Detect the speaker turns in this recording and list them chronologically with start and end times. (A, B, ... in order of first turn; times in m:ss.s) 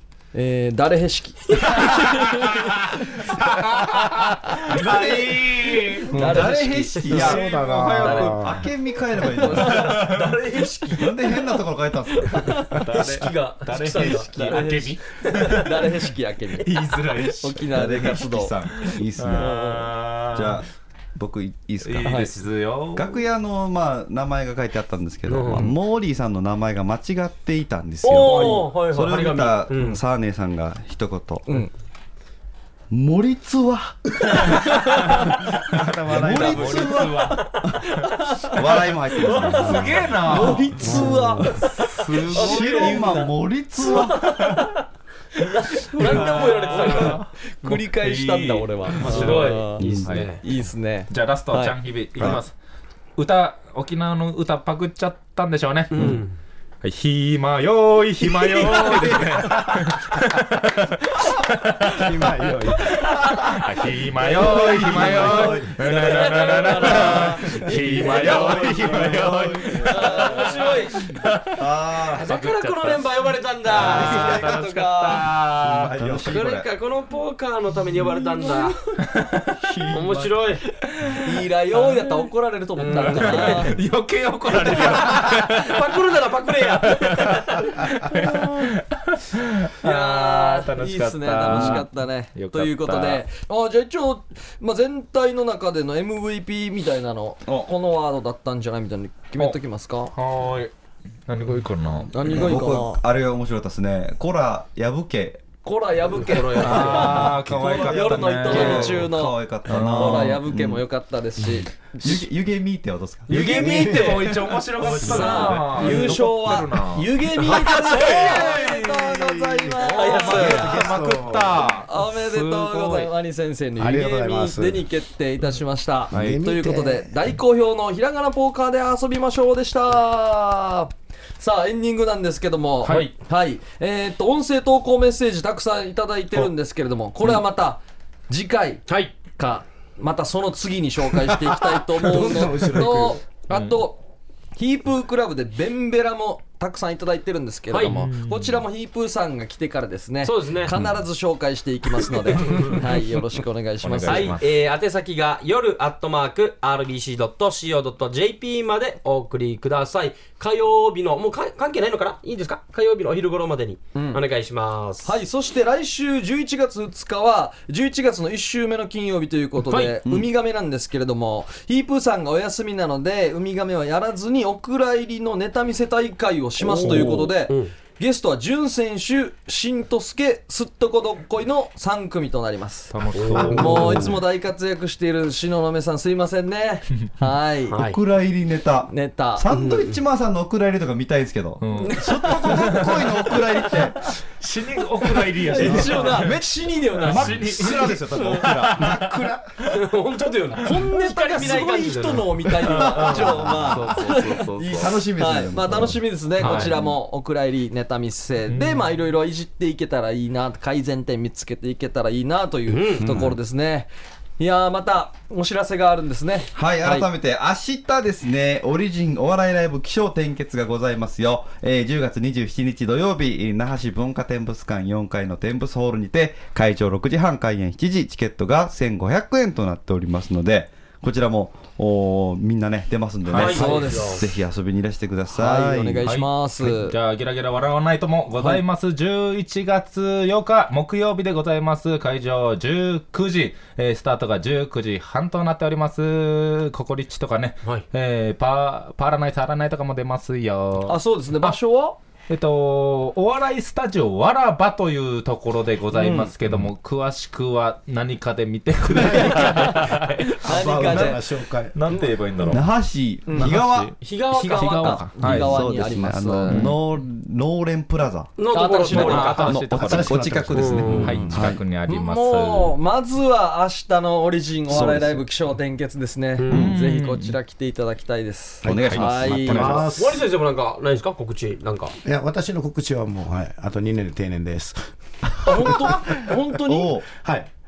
0:00.3-0:02.9 A
0:01.8-0:06.4 B
0:06.1-0:07.5 A
0:06.1-0:06.4 C
0:06.1-0:10.1 D
0:07.1-0:08.7 C
0:07.2-0:08.4 B
0:07.9-0:08.3 E
0:09.2-0:10.0 A
0:09.6-0:11.2 E
0:09.7-0:10.3 B
0:11.0-0:12.6 D
0:12.2-0:12.8 A
0:12.7-0:15.9 B
0:12.8-0:14.7 E
0:14.2-0:18.7 A
0:15.2-0:15.8 E
0:16.6-0:18.0 B
0:17.7-0:19.5 D
0:18.8-0:20.6 B
0:19.4-0:19.9 A
0:20.3-0:22.4 D
0:21.8-0:23.2 B
0:22.0-0:22.3 A
0:22.9-0:31.6 D
0:25.3-0:25.7 E
0:28.0-0:30.0 E
0:28.1-0:28.7 B
0:32.9-0:34.6 D
0:34.4-0:35.3 A
0:34.9-0:37.5 B
0:35.7-0:37.9 D
0:36.1-0:37.3 A
0:38.2-0:38.6 A
0:38.5-0:41.4 D
0:39.2-0:41.6 A
0:39.3-0:39.9 E
0:39.5-0:43.0 B
0:40.8-0:41.4 C
0:42.3-0:44.4 D
0:42.3-0:43.3 A
0:42.5-0:43.2 E
0:43.9-0:44.7 E
0:44.2-0:44.6 B
0:45.5-0:47.2 E
0:45.6-0:49.9 A
0:46.0-0:50.4 B
0:49.0-0:50.4 E
0:49.8-0:50.1 D
0:50.4-0:51.8 A
0:51.1-0:52.5 B
0:53.2-0:56.2 B
0:55.9-0:56.4 E
0:56.8-1:11.6 B
0:58.6-0:59.2 C
0:58.9-0:59.2 A
1:01.9-1:03.1 C
1:04.2-1:10.9 A
1:04.3-1:05.6 D
1:04.8-1:05.5 C
1:06.0-1:07.1 E
1:08.0-1:10.2 D
1:09.7-1:11.1 E
1:11.5-1:12.2 D
1:12.1-1:14.6 E
1:12.2-1:16.0 B
1:13.7-1:15.3 A
1:15.6-1:16.7 D
1:15.6-1:16.4 C
1:16.2-1:18.8 E
1:18.3-1:18.7 A
1:19.1-1:19.5 B
1:19.6-1:20.2 D
1:19.9-1:20.6 E
1:20.7-1:22.1 B
1:21.2-1:23.8 A
1:22.8-1:23.8 E
1:23.0-1:33.2 B
1:24.5-1:27.7 E
1:29.8-1:40.1 A
1:31.5-1:31.8 D
1:40.1-1:40.7 B
1:41.3-1:42.1 B
1:42.1-1:43.0 A
1:42.2-1:45.5 D
1:45.6-1:52.2 A
1:46.2-1:47.4 E
1:46.6-1:49.1 B
1:47.2-1:50.8 D
1:49.7-1:50.4 B
1:52.0-1:53.3 D
1:53.3-1:59.2 B
1:53.3-1:54.4 A
1:53.4-1:54.4 C
1:55.0-2:00.9 A
1:55.0-1:55.2 C
1:55.1-1:55.9 D
1:55.2-1:56.2 E
1:57.4-1:58.6 E
1:58.4-2:01.7 C
1:59.8-2:00.9 E
1:59.9-2:03.1 B
2:01.8-2:24.0 A
2:03.8-2:04.8 C
2:06.1-2:06.4 B
2:06.1-2:07.1 C
2:12.8-2:13.1 E
2:18.9-2:19.2 E
2:21.5-2:23.2 C
2:23.5-2:23.8 B
2:24.6-2:34.4 A
2:27.7-2:28.0 E
2:27.8-2:28.6 B
2:30.2-2:30.8 E
2:32.1-2:32.9 E
2:33.8-2:34.4 B
2:34.0-2:45.1 E
2:44.0-2:44.2 A
2:45.0-3:07.8 A
2:56.6-2:57.7 E
3:02.9-3:04.1 B
3:03.1-3:04.2 E
3:07.7-3:08.0 E
3:07.8-3:14.0 D
3:08.9-3:09.5 A
3:09.5-3:10.0 E
3:11.6-3:13.4 B
3:11.8-3:13.1 A
3:14.2-3:16.4 B
3:15.4-3:18.7 A
3:15.6-3:16.2 C
3:16.9-3:19.8 B
3:17.0-3:19.0 D
3:17.8-3:19.5 C
3:19.6-3:23.6 E
3:20.6-3:37.1 A
3:22.6-3:24.9 B
3:23.6-3:26.0 D
3:26.4-3:26.7 E
3:26.4-3:26.8 B
3:28.5-3:28.8 B
3:32.7-3:33.2 E
3:33.0-3:33.4 C
3:36.5-3:56.1 D
3:53.3-3:53.8 B
3:53.3-3:54.3 A
3:53.3-3:54.3 E
3:55.3-3:57.0 A
3:56.0-4:11.6 B
4:10.9-4:12.0 A
4:12.3-4:22.6 B
4:15.9-4:16.3 A
4:19.0-4:22.0 C
4:19.0-4:21.2 A
4:22.4-4:23.9 D
4:23.3-4:25.7 B
4:24.0-4:25.0 E
4:24.3-4:26.7 A
4:25.2-4:28.3 D
4:26.5-4:26.8 B
4:28.4-4:29.7 E
4:28.5-4:29.5 A
4:28.9-4:30.4 B
4:29.5-4:31.6 D
4:29.7-4:31.3 C
4:30.5-4:31.2 E
4:30.9-4:39.9 A
4:30.9-4:32.8 B
4:34.7-4:35.2 D
4:36.4-4:36.7 E
4:36.5-4:37.4 B
4:38.6-4:40.0 D
4:38.6-4:40.2 C
4:40.0-4:41.9 E
4:42.0-4:46.0 C
4:45.4-4:47.0 A
4:45.5-4:45.9 E
4:46.6-4:47.0 D
4:47.1-4:47.5 C